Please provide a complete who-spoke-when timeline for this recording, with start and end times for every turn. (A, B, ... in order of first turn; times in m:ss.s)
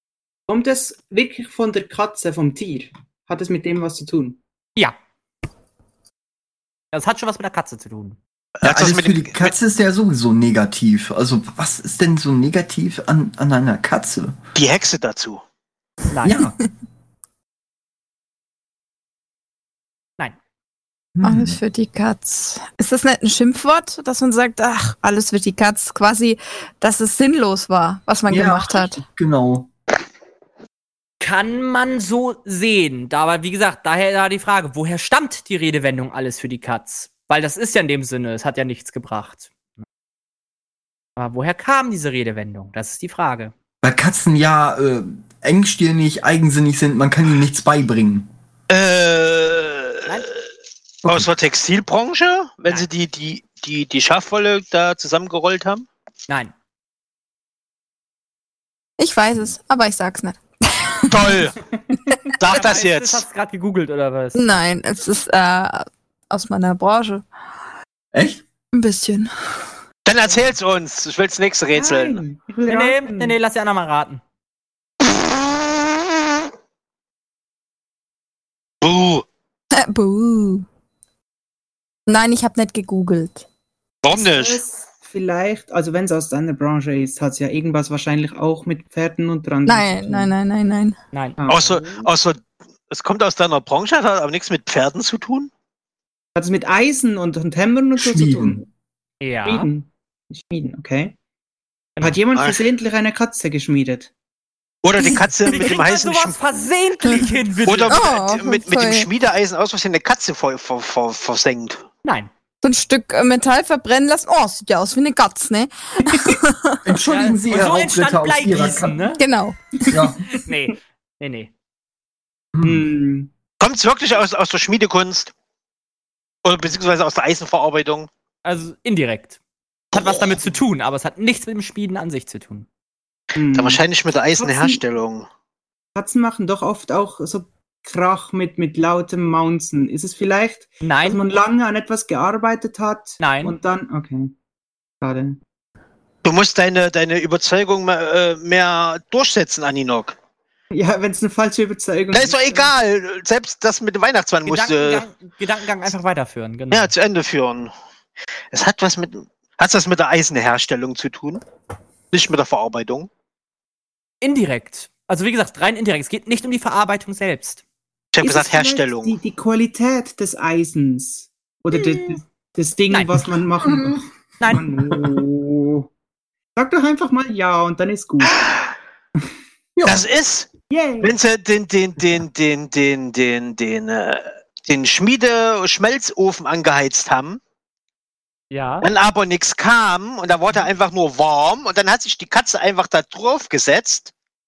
0:00.5-0:04.4 A
0:06.9-0:08.2 B
0:08.6-0:09.5 C
0:08.6-0:14.4 D
0:14.5-0:15.4 C
0:16.1-0:16.4 B
0:16.2-0:16.6 D
0:21.2-0:21.6 D
0:21.2-0:29.0 E
0:28.3-0:29.7 D
0:31.2-0:39.5 B
0:41.2-0:43.5 B
0:43.8-0:48.3 D
0:48.7-0:50.2 C
0:51.0-0:51.3 D
0:51.0-0:55.9 C
0:59.0-1:01.1 E
1:01.1-1:01.6 C
1:01.7-1:02.3 A
1:02.4-1:03.2 C
1:02.4-1:04.5 B
1:04.3-1:07.2 E
1:08.1-1:08.4 D
1:08.7-1:09.3 E
1:10.0-1:12.2 C
1:11.7-1:13.4 A
1:12.6-1:14.2 B
1:18.8-1:19.2 C
1:19.7-1:20.6 E
1:22.1-1:23.4 E
1:24.0-1:24.6 C
1:24.1-1:30.3 A
1:29.6-1:31.0 E
1:31.1-1:31.5 B
1:31.4-1:32.1 A
1:31.5-1:35.5 C
1:36.3-1:38.7 A
1:38.0-1:38.6 D
1:39.2-1:39.7 B
1:39.4-1:41.2 A
1:42.0-1:44.1 A
1:42.3-1:42.6 C
1:44.8-1:46.4 C
1:45.4-1:48.0 B
1:47.6-1:51.8 C
1:47.9-1:49.1 E
1:52.0-1:52.3 B
1:52.6-1:56.8 E
1:56.1-1:56.3 A
1:56.8-1:59.0 D
1:57.1-1:59.2 B
1:59.2-1:59.6 E
1:59.8-2:00.4 A
1:59.9-2:00.2 D
2:00.3-2:01.5 B
2:02.5-2:02.8 D
2:02.6-2:03.3 A
2:03.6-2:05.3 C
2:06.4-2:08.1 C
2:08.4-2:09.4 B
2:09.9-2:12.6 B
2:13.3-2:13.8 A
2:13.5-2:15.3 C
2:14.4-2:14.8 A
2:15.9-2:24.3 A
2:20.8-2:21.2 B
2:23.2-2:23.6 B
2:25.0-2:25.4 A
2:26.2-2:30.2 C
2:30.7-2:32.7 A
2:32.1-2:35.0 C
2:34.4-2:36.9 B
2:36.7-2:37.7 C
2:38.5-2:41.4 C
2:42.1-2:43.1 C
2:44.2-2:47.6 B
2:48.1-2:49.2 C
2:48.2-2:55.9 A
2:52.9-2:53.2 B
2:54.4-2:54.7 B
2:56.5-2:58.4 A
2:59.8-3:00.0 D
2:59.8-3:07.4 C
3:00.7-3:01.2 A
3:08.5-3:08.9 B
3:08.8-3:14.1 C